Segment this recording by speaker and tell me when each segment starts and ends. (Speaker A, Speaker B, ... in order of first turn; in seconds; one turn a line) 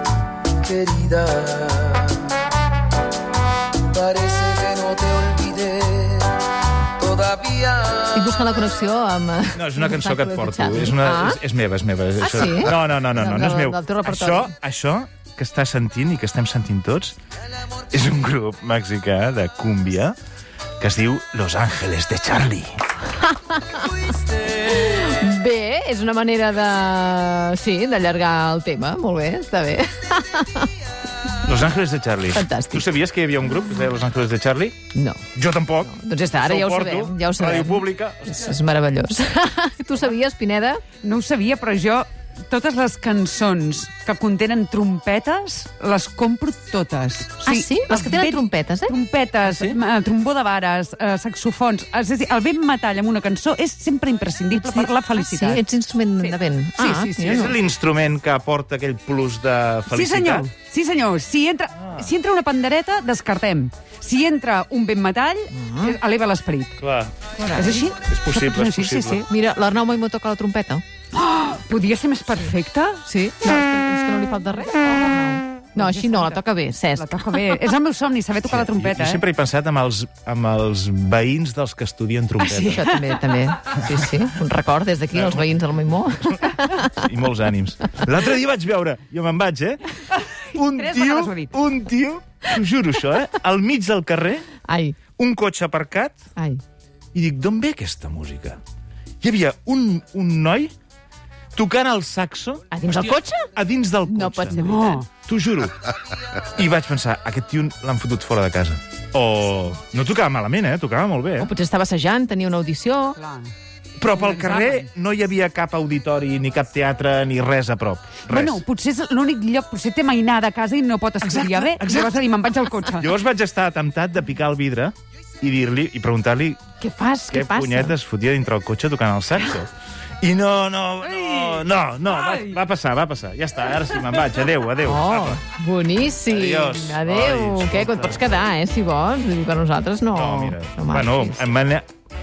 Speaker A: 0.7-2.3
Speaker A: 3.9-6.4
Speaker A: 7.0-7.9
Speaker B: 8.1-11.4
Speaker C: 9.5-17.2
Speaker B: 12.2-14.5
Speaker C: 17.9-20.1
Speaker C: 20.8-22.7
Speaker B: 23.3-30.7
Speaker C: 31.4-34.8
Speaker B: 32.3-32.8
Speaker B: 34.9-35.2
Speaker C: 35.3-38.6
Speaker B: 35.8-40.8
Speaker D: 41.0-55.6
Speaker B: 47.4-48.9
Speaker C: 49.5-49.8
Speaker B: 54.7-57.5
Speaker D: 56.2-57.5
Speaker C: 57.2-60.5
Speaker D: 59.9-66.8
Speaker C: 61.8-62.1
Speaker B: 65.5-66.0
Speaker C: 66.8-67.1
Speaker B: 67.4-67.8
Speaker D: 67.5-69.3
Speaker C: 68.0-69.3
Speaker B: 69.3-70.8
Speaker D: 71.1-73.0
Speaker B: 73.0-77.1
Speaker D: 75.8-76.4
Speaker D: 77.0-79.2
Speaker C: 78.4-83.0
Speaker D: 82.5-83.0
Speaker B: 82.5-87.0
Speaker C: 85.1-85.6
Speaker C: 86.2-90.0
Speaker C: 90.5-94.5
Speaker D: 90.5-91.5
Speaker B: 94.7-95.0
Speaker C: 95.2-96.2
Speaker B: 96.4-96.6
Speaker C: 97.1-98.6
Speaker C: 99.2-100.7
Speaker C: 101.5-105.9
Speaker B: 102.7-103.5
Speaker B: 104.1-105.0
Speaker D: 104.6-105.1
Speaker C: 106.5-111.5
Speaker B: 111.4-113.2
Speaker D: 113.2-113.5
Speaker C: 114.0-118.6
Speaker D: 114.1-114.9
Speaker D: 118.3-123.1
Speaker C: 121.2-122.1
Speaker C: 123.0-126.6
Speaker B: 126.8-128.0
Speaker C: 127.3-135.4
Speaker D: 131.2-132.5
Speaker B: 134.8-141.5
Speaker C: 136.3-138.4
Speaker C: 140.1-141.9